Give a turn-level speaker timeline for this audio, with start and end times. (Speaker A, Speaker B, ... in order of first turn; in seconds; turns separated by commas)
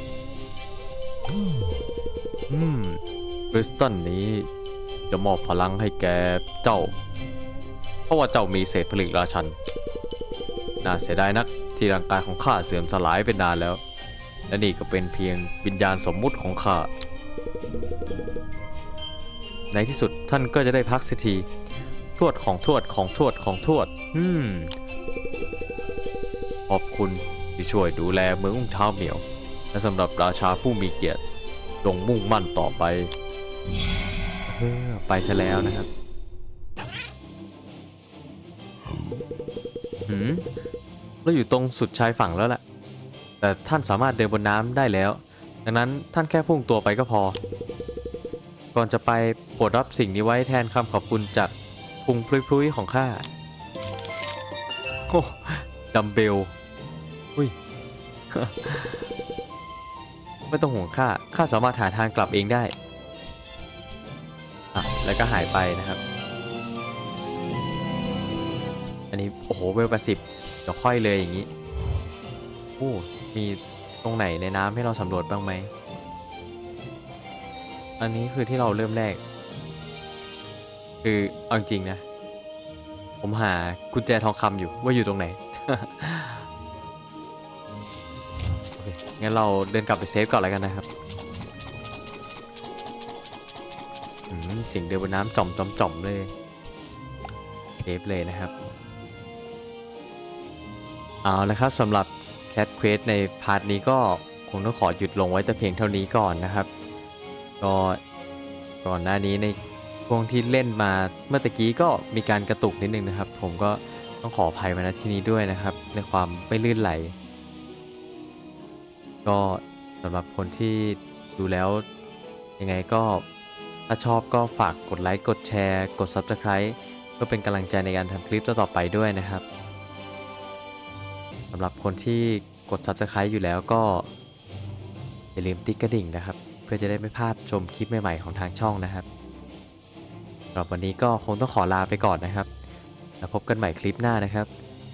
Speaker A: 2.5-3.0, Speaker A: 3.5-4.5, Speaker A: 5.1-6.9, Speaker A: 8.1-9.6, Speaker A: 10.8-13.8, Speaker A: 14.5-16.9, Speaker A: 19.7-21.5, Speaker A: 22.1-24.7, Speaker A: 26.7-31.2, Speaker A: 31.8-33.1, Speaker A: 34.5-35.9, Speaker A: 40.1-40.5, Speaker A: 41.2-42.6, Speaker A: 43.4-47.4, Speaker A: 48.7-53.2, Speaker A: 55.1-56.5, Speaker A: 58.3-59.1, Speaker A: 60.5-62.7, Speaker A: 64.7-66.0, Speaker A: 69.1-71.5, Speaker A: 72.8-75.7, Speaker A: 78.0-79.2, Speaker A: 81.0-82.0, Speaker A: 83.2-86.5, Speaker A: 88.8-90.8, Speaker A: 94.3-96.3, Speaker A: 97.8-98.5, Speaker A: 101.2-106.7, Speaker A: 107.6-108.0, Speaker A: 108.8-109.5, Speaker A: 110.1-117.1, Speaker A: 119.2-121.8, Speaker A: 122.6-123.2, Speaker A: 123.9-129.4, Speaker A: 131.5-134.1, Speaker A: 135.3-139.0, Speaker A: 140.5-142.5, Speaker A: 143.2-144.5